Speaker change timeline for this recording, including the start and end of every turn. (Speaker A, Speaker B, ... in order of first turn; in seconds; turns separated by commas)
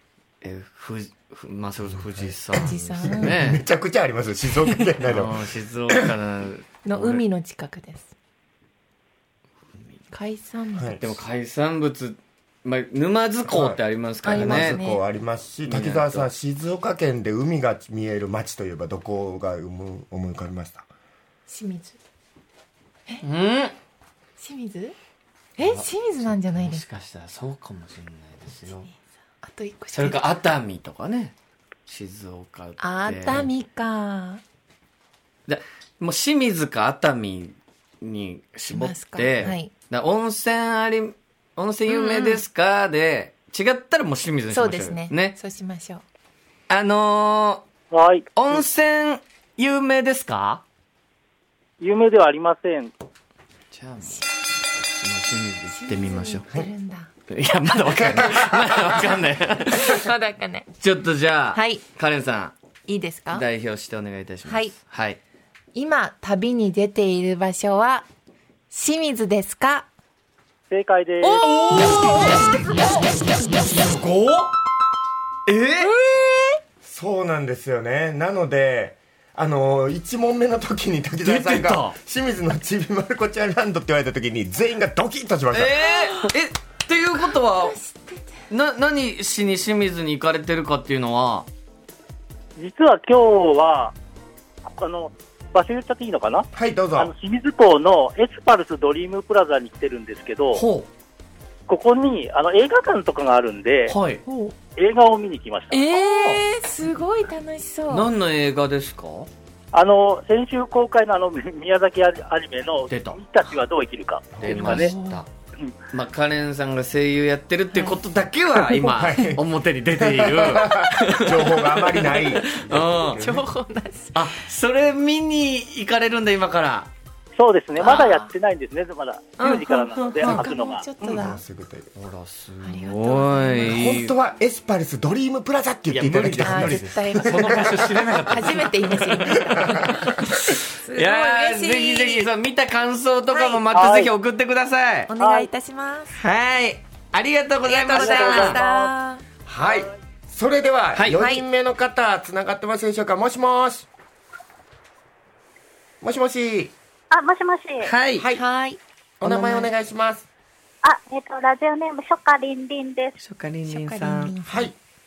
Speaker A: 0.4-3.6, Speaker B: 2.2-6.1, Speaker C: 2.6-3.3, Speaker A: 5.0-7.2, Speaker C: 6.8-8.1, Speaker C: 10.1-11.0, Speaker A: 11.0-14.8, Speaker B: 13.4-20.9, Speaker C: 14.2-15.0, Speaker A: 15.7-16.3, Speaker C: 21.5-22.0, Speaker A: 23.2-23.7, Speaker C: 24.4-24.9, Speaker C: 25.6-26.8, Speaker A: 25.6-28.9, Speaker C: 28.8-30.4, Speaker A: 29.9-31.3, Speaker A: 31.9-33.5, Speaker C: 32.8-34.4, Speaker A: 35.5-45.3, Speaker C: 38.7-39.7, Speaker C: 41.9-42.4, Speaker C: 44.5-46.0, Speaker A: 46.7-47.6, Speaker D: 47.9-48.3, Speaker A: 48.3-50.6, Speaker D: 51.8-52.9, Speaker A: 53.7-56.4, Speaker C: 54.0-54.3, Speaker C: 55.7-57.1, Speaker A: 57.3-60.1, Speaker C: 57.7-58.0, Speaker C: 59.7-60.7, Speaker A: 60.8-62.5, Speaker C: 61.5-61.8, Speaker C: 62.9-63.5, Speaker A: 63.3-65.2, Speaker C: 64.5-64.7, Speaker C: 65.7-68.0, Speaker C: 68.7-69.9, Speaker D: 70.7-71.5, Speaker A: 71.2-74.5, Speaker C: 72.0-73.0, Speaker A: 75.5-76.4, Speaker B: 76.8-85.8, Speaker A: 81.2-82.0, Speaker A: 85.5-87.8, Speaker C: 86.0-86.3, Speaker C: 87.2-88.3, Speaker A: 88.5-91.5, Speaker D: 92.6-93.9, Speaker D: 94.6-100.6, Speaker B: 96.5-97.1, Speaker A: 100.5-100.9, Speaker D: 101.7-103.9, Speaker A: 103.9-104.2, Speaker C: 104.2-104.5, Speaker D: 104.8-105.8, Speaker C: 105.7-108.1, Speaker A: 105.9-106.4, Speaker A: 107.9-109.3, Speaker D: 109.7-114.9, Speaker A: 112.9-113.2, Speaker A: 114.4-115.3, Speaker C: 114.4-115.2, Speaker A: 115.9-123.2, Speaker C: 118.6-118.9, Speaker B: 118.9-119.4, Speaker B: 120.0-123.4, Speaker C: 122.4-124.4, Speaker A: 124.1-126.9, Speaker D: 127.3-130.9, Speaker C: 127.8-128.3, Speaker A: 129.4-130.4, Speaker C: 129.4-131.4, Speaker B: 131.0-131.9, Speaker A: 132.0-134.1, Speaker C: 132.6-133.8, Speaker B: 133.6-138.0, Speaker A: 135.9-145.1, Speaker C: 136.4-137.6, Speaker C: 138.3-140.2, Speaker B: 139.5-139.8, Speaker C: 140.8-142.3, Speaker C: 143.3-143.8, Speaker D: 143.7-144.1, Speaker C: 145.1-146.1, Speaker D: 145.2-145.5, Speaker A: 146.1-148.6, Speaker C: 147.7-149.2, Speaker D: 147.9-148.9, Speaker B: 149.4-153.9, Speaker A: 150.9-151.2, Speaker C: 151.2-151.4, Speaker B: 156.0-156.7, Speaker E: 157.1-157.9, Speaker A: 157.8-158.2, Speaker B: 158.2-158.4, Speaker C: 158.3-159.7, Speaker B: 159.2-160.3, Speaker E: 160.8-163.2, Speaker A: 163.2-164.3, Speaker C: 163.7-164.7, Speaker B: 164.4-164.7